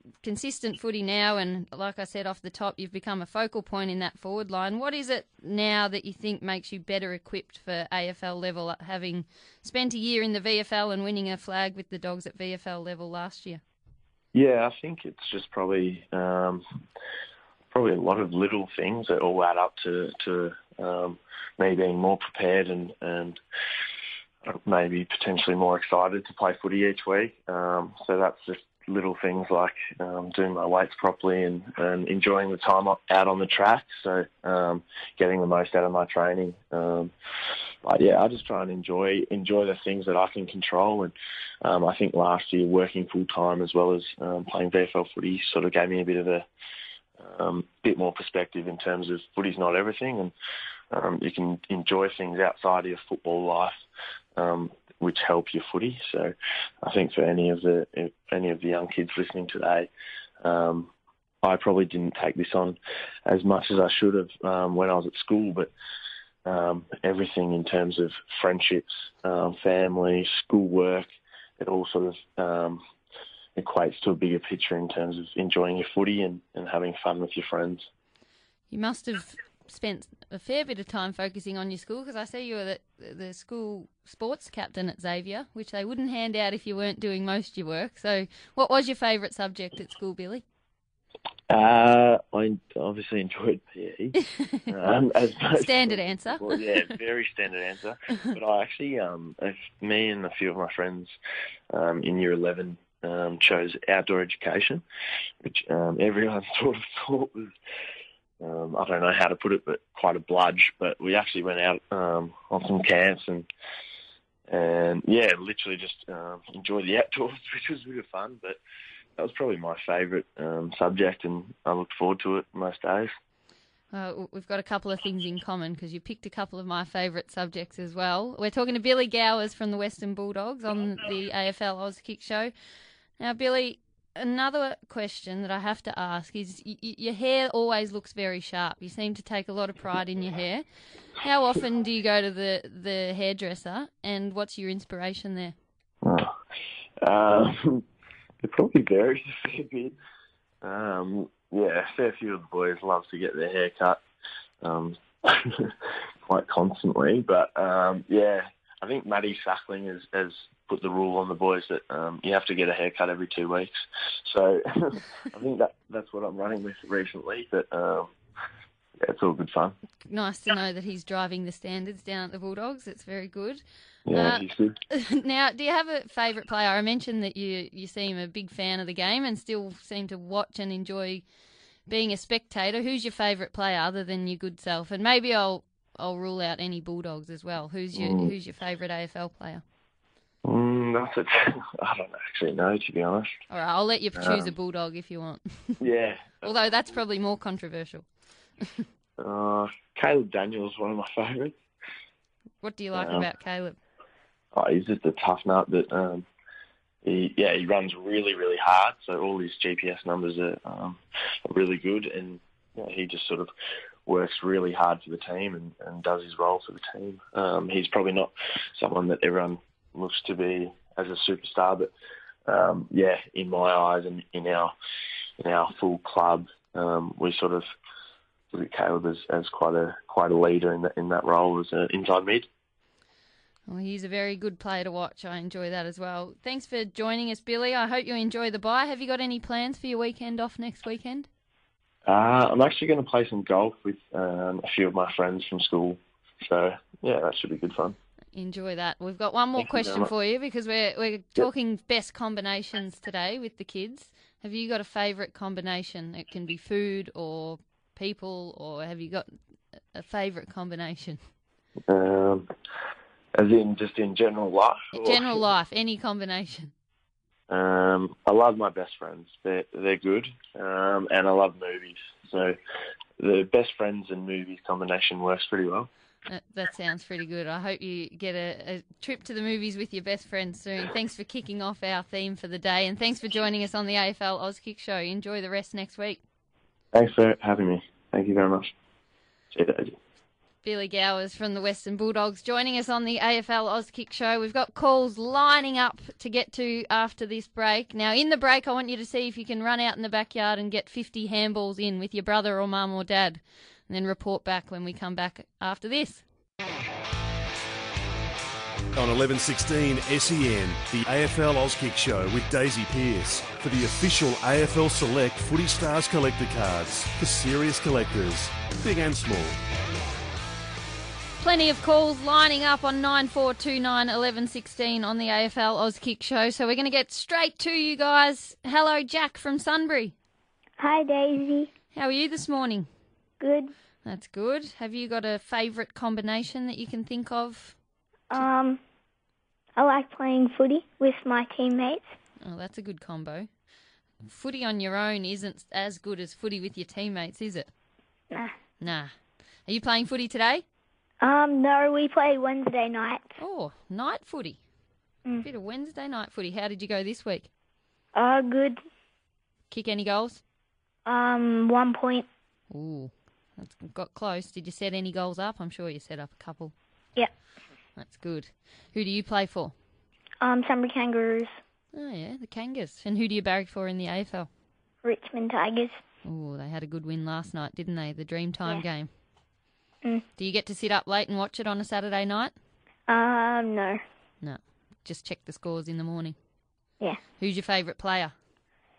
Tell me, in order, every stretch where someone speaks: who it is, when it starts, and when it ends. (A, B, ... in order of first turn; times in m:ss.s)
0:00.2-0:13.6 A
0:14.3-0:16.6 B
0:17.7-0:23.4 B
0:24.5-0:37.1 B
0:37.8-0:46.5 B
0:47.2-0:50.3 B
0:50.9-0:53.8 B
0:54.4-0:59.9 B
1:00.4-1:00.9 B
1:01.4-1:05.7 B
1:06.4-1:12.8 B
1:13.6-1:17.9 B
1:18.7-1:30.4 A
1:31.5-1:41.1 B
1:34.4-1:34.7 A
1:35.6-1:36.6 A
1:41.7-1:44.8 B
1:45.4-1:47.5 B
1:48.4-1:53.5 B
1:54.5-1:58.6 B
1:59.2-2:03.1 B
2:03.9-2:12.5 A
2:13.2-2:20.6 A
2:21.2-2:25.6 A
2:26.0-2:26.3 B
2:27.0-2:27.8 B
2:28.4-2:30.0 B
2:30.6-2:34.0 B
2:34.6-2:35.7 B
2:36.3-2:48.1 B
2:49.0-2:49.8 B
2:50.0-3:01.2 A
2:54.1-2:54.8 B
3:01.9-3:09.6 A
3:08.0-3:08.3 B
3:10.4-3:13.3 B
3:13.5-3:15.8 A
3:14.2-3:14.5 B
3:15.8-3:16.5 B
3:16.4-3:18.0 A
3:19.2-3:21.6 B
3:22.6-3:23.8 A
3:22.9-3:23.3 B
3:24.5-3:26.3 B
3:27.0-3:33.5 B
3:34.1-3:41.9 B
3:42.5-3:44.7 B
3:45.4-3:47.6 B
3:48.5-3:52.5 B
3:53.7-4:01.3 A
4:02.1-4:08.0 B
4:08.4-4:19.3 A
4:09.6-4:10.1 B
4:19.9-4:21.2 A
4:21.9-4:22.5 B
4:23.3-4:25.4 B
4:24.9-4:26.7 A
4:27.5-4:32.6 B
4:33.2-4:35.9 B
4:36.3-4:46.2 A
4:46.9-4:48.7 B
4:49.5-4:50.0 B
4:50.6-5:06.2 A
5:09.0-5:19.6 C
5:21.4-5:30.1 A
5:30.8-5:31.7 D
5:31.9-5:32.9 A
5:33.4-5:33.7 D
5:34.0-5:37.8 A
5:38.3-5:38.8 D
5:39.8-5:42.0 D
5:42.4-5:43.5 A
5:44.2-5:47.7 A
5:48.8-5:49.1 A
5:49.7-5:50.6 A
5:51.2-5:53.3 D
5:53.4-5:54.6 A
5:55.4-5:57.5 A
5:58.1-5:58.8 D
5:59.7-6:00.4 A
6:01.1-6:02.3 D
6:02.7-6:06.7 A
6:08.0-6:09.7 A
6:10.4-6:11.6 D
6:11.9-6:14.5 A
6:15.0-6:16.0 D
6:16.2-6:19.1 A
6:20.4-6:22.5 A
6:23.1-6:24.0 D
6:24.4-6:26.4 A
6:27.4-6:28.3 A